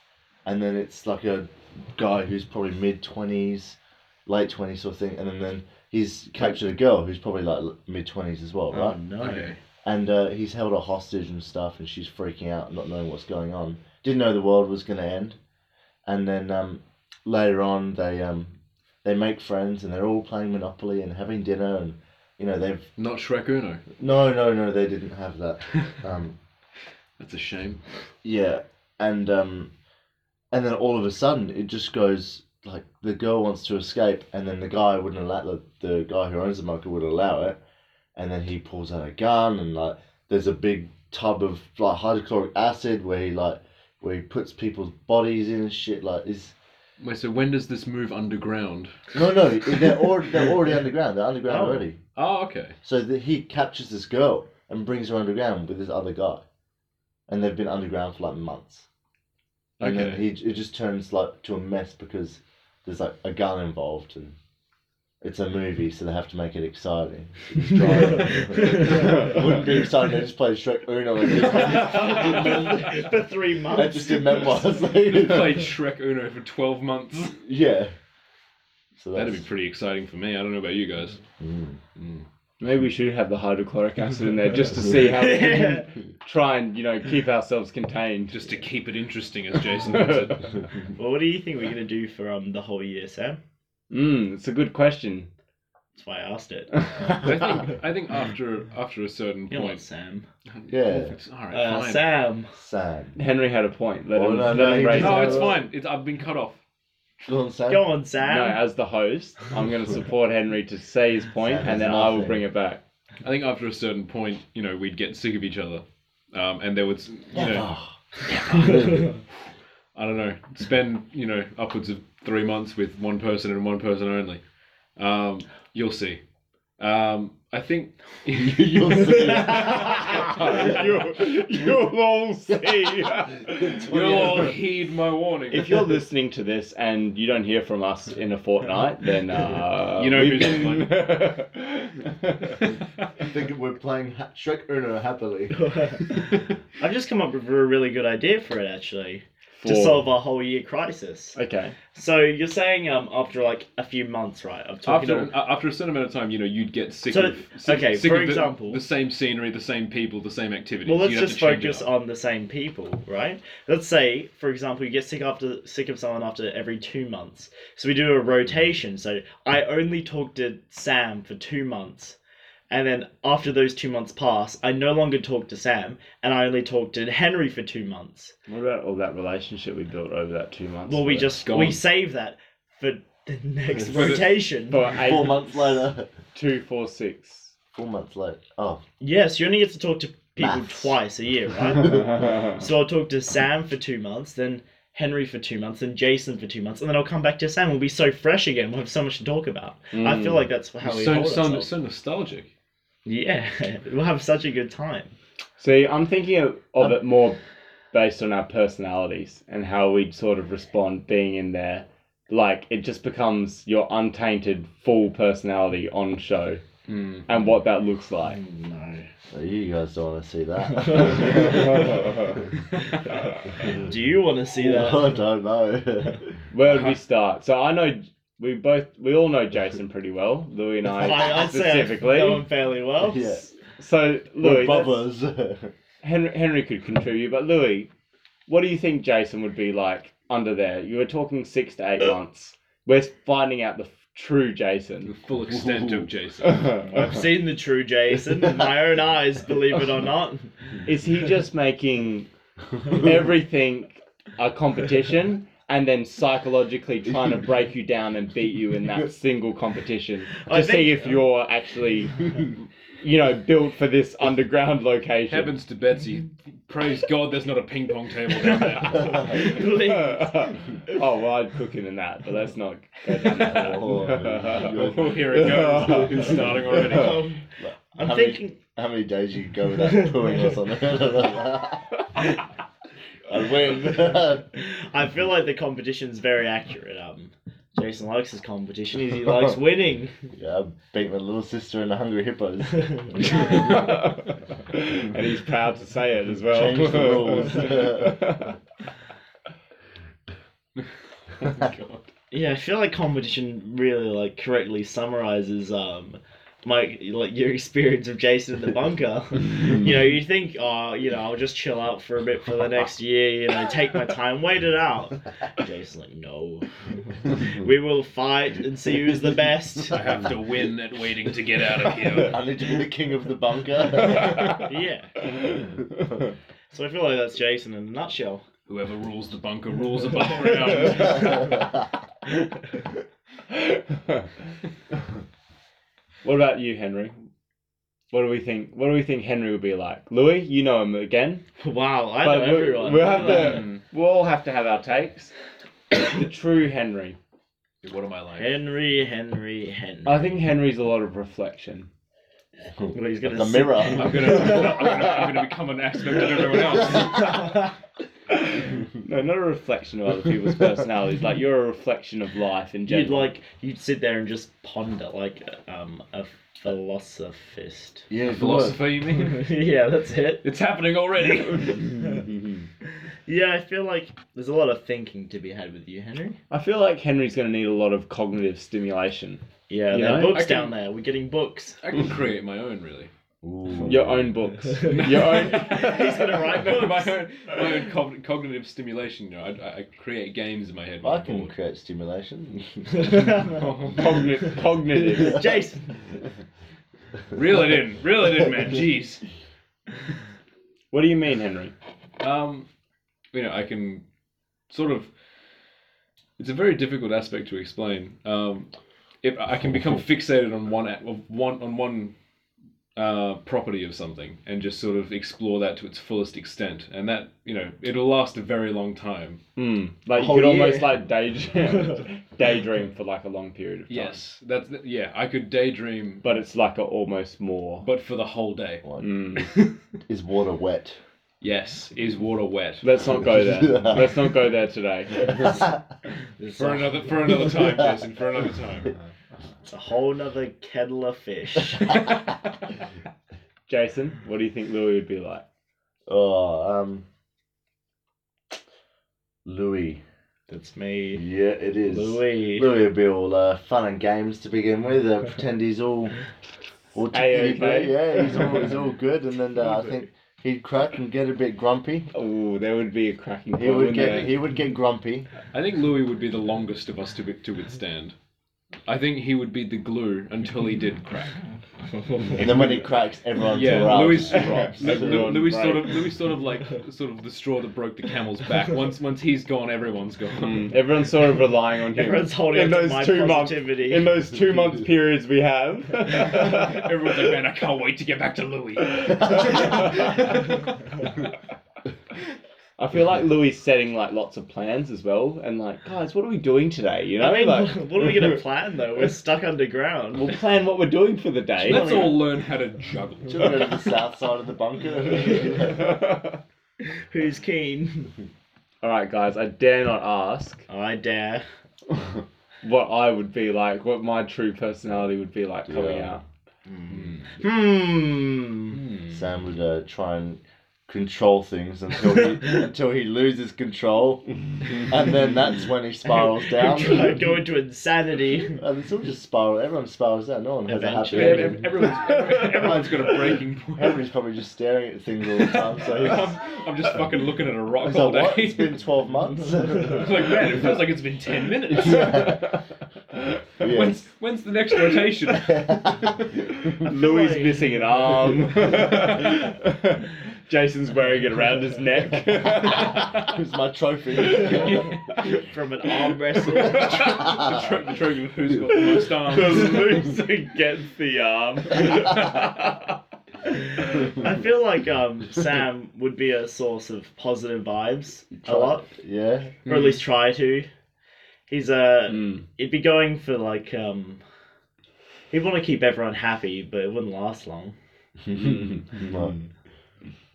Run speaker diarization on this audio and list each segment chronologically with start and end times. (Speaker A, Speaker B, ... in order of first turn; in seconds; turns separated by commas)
Speaker A: 0.4-9.0, Speaker B: 8.7-9.5, Speaker C: 9.2-9.6, Speaker A: 9.8-15.4, Speaker A: 16.1-22.9, Speaker C: 23.0-23.8, Speaker A: 24.0-26.4, Speaker C: 27.2-27.8, Speaker A: 28.2-29.7, Speaker A: 30.5-37.6, Speaker A: 38.1-46.5, Speaker C: 47.0-48.9, Speaker A: 49.1-52.0, Speaker B: 51.5-51.9, Speaker C: 52.1-52.8, Speaker A: 52.8-56.4, Speaker A: 57.3-58.9, Speaker C: 59.8-60.2, Speaker A: 59.8-64.3, Speaker A: 65.2-73.0, Speaker B: 68.6-68.9, Speaker B: 71.7-74.8, Speaker A: 73.7-75.6, Speaker C: 75.0-77.4, Speaker A: 77.4-77.9, Speaker A: 79.0-79.4, Speaker C: 79.1-81.2, Speaker A: 81.4-81.8, Speaker C: 82.0-82.2, Speaker D: 82.6-88.5, Speaker B: 85.0-85.9, Speaker C: 88.3-90.5, Speaker D: 89.9-90.3, Speaker B: 91.0-93.4, Speaker D: 93.9-95.3, Speaker B: 95.9-97.3, Speaker C: 97.1-99.8, Speaker B: 99.5-100.2, Speaker C: 100.5-102.0, Speaker A: 100.7-101.1, Speaker B: 101.5-102.5, Speaker A: 102.5-103.2, Speaker D: 103.2-105.5, Speaker A: 104.1-105.6, Speaker C: 104.9-106.6, Speaker A: 107.2-107.9, Speaker B: 107.7-108.6, Speaker D: 108.2-112.8, Speaker A: 111.4-112.4, Speaker C: 113.2-117.7, Speaker A: 117.3-119.2, Speaker C: 119.9-124.4, Speaker C: 125.0-126.2, Speaker C: 126.8-130.8, Speaker A: 128.3-130.1, Speaker D: 129.6-133.8, Speaker A: 133.4-134.6, Speaker C: 133.8-135.9, Speaker D: 135.5-142.7, Speaker C: 139.9-141.1, Speaker A: 143.2-145.7, Speaker B: 145.5-151.4, Speaker D: 149.6-150.1, Speaker D: 151.3-151.8, Speaker B: 151.9-155.3, Speaker C: 154.8-161.9, Speaker B: 157.1-158.8, Speaker B: 160.8-172.2, Speaker B: 172.7-178.3, Speaker D: 178.5-181.4, Speaker B: 180.9-184.9, Speaker C: 181.4-181.8, Speaker C: 183.9-184.3, Speaker D: 184.7-185.8, Speaker A: 184.9-186.1, Speaker D: 186.3-187.5, Speaker A: 187.7-188.8, Speaker B: 189.0-201.7, Speaker A: 190.4-190.9, Speaker A: 191.7-192.5, Speaker D: 192.2-192.5, Speaker D: 199.9-200.4, Speaker C: 200.8-202.5, Speaker B: 203.0-205.1, Speaker D: 205.6-207.4, Speaker D: 207.9-216.6, Speaker C: 216.9-217.2, Speaker D: 217.3-218.4, Speaker B: 218.3-219.1, Speaker A: 219.3-222.0, Speaker B: 221.1-221.5, Speaker B: 223.6-225.1, Speaker A: 224.6-226.4, Speaker D: 226.5-232.4, Speaker C: 226.6-227.0, Speaker B: 230.9-233.4, Speaker A: 233.0-233.5, Speaker D: 233.8-235.1, Speaker A: 234.4-235.7, Speaker D: 236.0-237.9, Speaker D: 238.5-245.2, Speaker C: 245.0-246.8, Speaker B: 246.9-250.5, Speaker D: 250.8-252.3, Speaker D: 252.8-262.5, Speaker B: 260.5-261.2, Speaker D: 263.0-265.5, Speaker C: 265.3-269.3, Speaker B: 268.4-270.6, Speaker D: 269.7-277.2, Speaker A: 273.2-275.9, Speaker C: 274.6-277.3, Speaker B: 276.4-278.6, Speaker A: 277.6-281.9, Speaker A: 283.3-284.5, Speaker B: 284.5-290.1, Speaker A: 290.3-293.1, Speaker D: 293.5-294.1, Speaker D: 294.7-298.5, Speaker A: 296.5-298.3, Speaker B: 302.3-320.0, Speaker C: 319.9-322.4, Speaker A: 322.2-324.5, Speaker B: 324.5-325.1, Speaker B: 326.7-328.4, Speaker C: 328.7-331.7, Speaker D: 336.2-337.2, Speaker D: 338.1-341.4, Speaker B: 341.6-343.7, Speaker D: 342.2-345.3, Speaker C: 343.1-343.8, Speaker D: 345.9-347.2, Speaker C: 347.8-348.6, Speaker B: 348.4-350.2, Speaker D: 350.1-351.9, Speaker A: 352.8-354.2, Speaker B: 352.9-354.6, Speaker C: 353.9-357.3, Speaker D: 359.0-363.3, Speaker B: 362.9-368.1, Speaker A: 368.1-368.8, Speaker C: 368.2-369.5, Speaker B: 369.1-370.4, Speaker C: 370.4-372.0, Speaker B: 373.2-376.4, Speaker D: 376.5-380.4, Speaker B: 379.7-381.8, Speaker C: 380.3-380.7, Speaker C: 381.8-383.1, Speaker A: 383.4-384.3, Speaker D: 383.9-386.6, Speaker C: 384.9-391.5, Speaker B: 384.9-387.2, Speaker A: 391.0-393.2, Speaker B: 393.0-393.6, Speaker C: 393.5-394.2, Speaker D: 393.9-395.4, Speaker B: 395.1-396.1, Speaker C: 397.3-399.2, Speaker D: 400.9-401.7, Speaker C: 402.2-402.7, Speaker C: 403.3-404.0, Speaker C: 404.7-405.1, Speaker C: 406.4-408.7, Speaker C: 409.2-412.1, Speaker C: 412.9-419.4, Speaker D: 419.6-424.2, Speaker B: 420.1-420.9, Speaker C: 423.9-426.4, Speaker D: 426.2-427.9, Speaker C: 427.8-428.8, Speaker A: 428.8-429.4, Speaker D: 429.0-429.7, Speaker A: 430.1-431.0, Speaker C: 431.4-432.8, Speaker D: 432.8-435.6, Speaker A: 433.4-434.2, Speaker B: 436.4-437.4, Speaker C: 436.6-438.9, Speaker B: 439.6-442.0, Speaker D: 443.7-445.4, Speaker A: 446.1-447.0, Speaker A: 449.4-450.0, Speaker B: 450.5-451.2, Speaker A: 451.2-456.1, Speaker B: 451.9-452.7, Speaker A: 456.9-462.1, Speaker D: 457.1-458.2, Speaker D: 462.1-464.4, Speaker A: 463.5-465.3, Speaker C: 465.5-468.1, Speaker C: 468.9-471.4, Speaker B: 471.9-472.7, Speaker A: 472.4-475.3, Speaker C: 473.5-480.7, Speaker D: 473.6-476.0, Speaker D: 480.4-486.9, Speaker B: 481.9-484.1, Speaker C: 486.1-490.6, Speaker D: 492.8-497.8, Speaker B: 497.2-500.3, Speaker D: 500.1-502.1, Speaker B: 501.6-502.2, Speaker C: 501.6-503.7, Speaker A: 503.3-506.0, Speaker D: 505.8-506.3, Speaker B: 506.8-508.1, Speaker D: 508.8-510.6, Speaker B: 510.7-511.4, Speaker D: 512.6-516.2, Speaker A: 515.7-516.2, Speaker B: 516.7-518.8, Speaker C: 516.9-517.2, Speaker C: 518.8-519.1, Speaker A: 519.1-527.3, Speaker B: 526.1-528.6, Speaker A: 528.5-531.8, Speaker B: 530.6-531.7, Speaker C: 531.1-534.0, Speaker D: 531.9-532.8, Speaker A: 532.4-533.2, Speaker A: 533.8-536.4, Speaker C: 535.5-538.8, Speaker A: 537.8-540.0, Speaker C: 539.9-542.2, Speaker A: 541.7-542.5, Speaker D: 541.9-542.5, Speaker A: 543.6-544.0, Speaker C: 543.6-545.8, Speaker A: 545.4-546.1, Speaker D: 546.8-553.4, Speaker B: 546.9-548.0, Speaker A: 553.2-554.9, Speaker D: 554.3-554.6, Speaker C: 554.5-555.2, Speaker B: 555.2-557.5, Speaker C: 556.6-560.0, Speaker D: 556.6-557.0, Speaker D: 558.7-562.9, Speaker B: 564.0-568.9, Speaker A: 568.4-569.6, Speaker B: 569.6-570.7, Speaker C: 569.6-570.0, Speaker B: 571.5-574.2, Speaker D: 572.1-572.4, Speaker B: 575.3-577.8, Speaker A: 578.2-579.3, Speaker D: 578.3-579.3